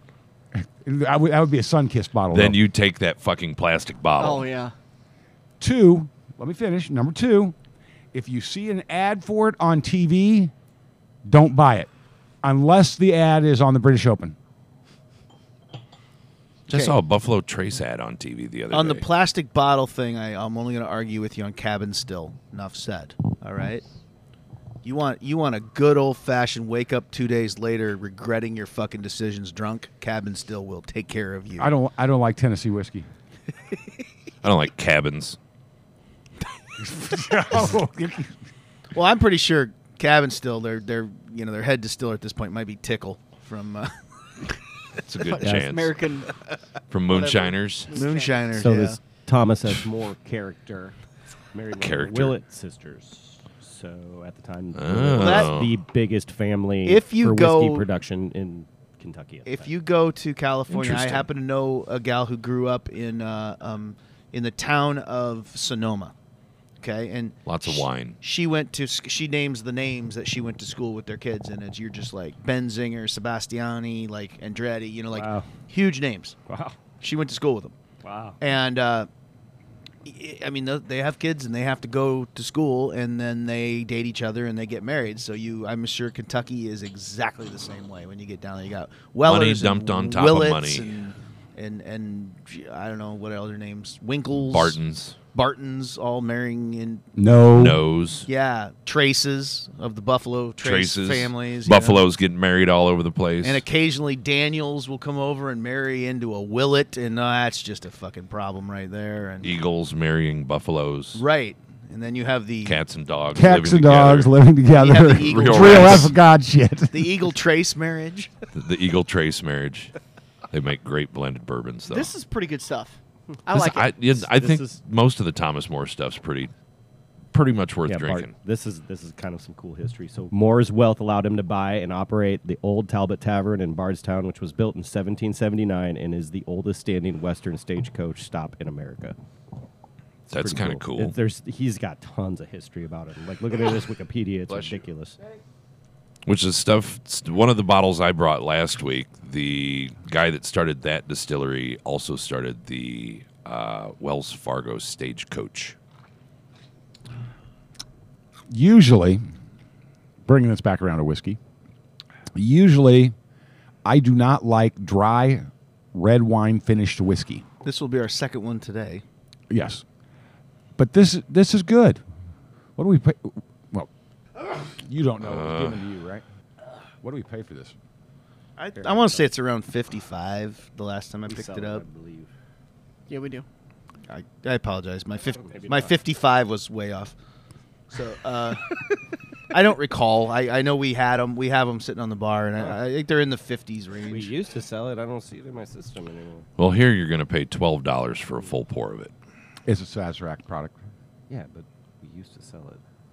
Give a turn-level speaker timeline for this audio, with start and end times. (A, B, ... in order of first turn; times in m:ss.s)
0:00.5-0:02.6 A
0:02.3-0:04.4 B
0:04.2-0:04.7 C
0:05.6-0:07.5 A
0:08.1-0:10.5 A
0:11.2-0:11.9 A
0:12.4-0:14.4 A
0:16.7-0:19.0 B
0:16.7-0:17.0 D
0:18.7-0:23.8 D
0:24.8-0:31.7 D
0:31.6-0:33.1 A
0:34.4-0:35.4 B
0:36.8-0:38.3 A
0:38.9-0:43.9 D
0:45.0-0:46.0 B
0:45.3-0:46.3 C
0:46.9-0:47.9 B
0:47.1-0:48.4 C
0:47.9-0:49.0 D
0:48.5-0:50.9 E
0:51.5-0:59.7 E
0:51.8-0:52.4 B
0:54.7-0:55.8 B
0:55.2-0:55.5 D
0:56.8-0:57.9 D
0:59.4-1:06.1 D
1:00.7-1:01.3 B
1:06.8-1:16.4 D
1:07.4-1:08.2 B
1:15.1-1:15.5 E
1:16.5-1:16.8 E
1:17.0-1:17.7 D
1:18.0-1:18.4 E
1:18.4-1:19.1 D
1:20.0-1:34.8 D
1:29.2-1:31.0 B
1:34.4-1:35.2 B
1:35.3-1:37.0 D
1:37.2-1:37.8 A
1:37.5-1:38.3 B
1:38.2-1:42.0 D
1:40.6-1:43.6 B
1:43.4-1:49.6 D
1:49.4-1:51.2 B
1:51.1-1:52.8 D
1:52.6-1:54.4 B
1:53.3-1:57.3 A
1:54.7-1:56.1 D
1:55.0-1:56.1 B
1:56.9-1:58.3 D
1:58.5-1:59.9 B
2:00.5-2:02.1 B
2:01.9-2:03.9 C
2:03.5-2:06.5 B
2:04.2-2:04.8 E
2:07.3-2:08.3 B
2:07.8-2:19.1 E
2:20.3-2:21.1 B
2:20.3-2:25.2 E
2:24.5-2:24.8 B
2:26.2-2:35.8 B
2:38.5-2:39.2 A
2:40.2-2:41.4 A
2:42.3-2:43.1 A
2:43.8-2:47.4 A
2:47.6-2:49.0 D
2:49.5-2:49.8 A
2:50.8-2:52.0 A
2:52.8-2:53.9 A
2:54.8-2:56.2 A
2:55.2-2:55.8 B
2:57.0-2:57.7 A
2:58.6-3:01.8 D
2:58.8-2:59.2 E
3:01.2-3:02.3 E
3:03.1-3:03.4 C
3:04.1-3:07.1 D
3:05.4-3:05.9 E
3:07.9-3:08.7 D
3:09.5-3:14.3 D
3:14.1-3:16.5 E
3:16.6-3:19.1 B
3:19.6-3:20.8 A
3:21.3-3:22.8 E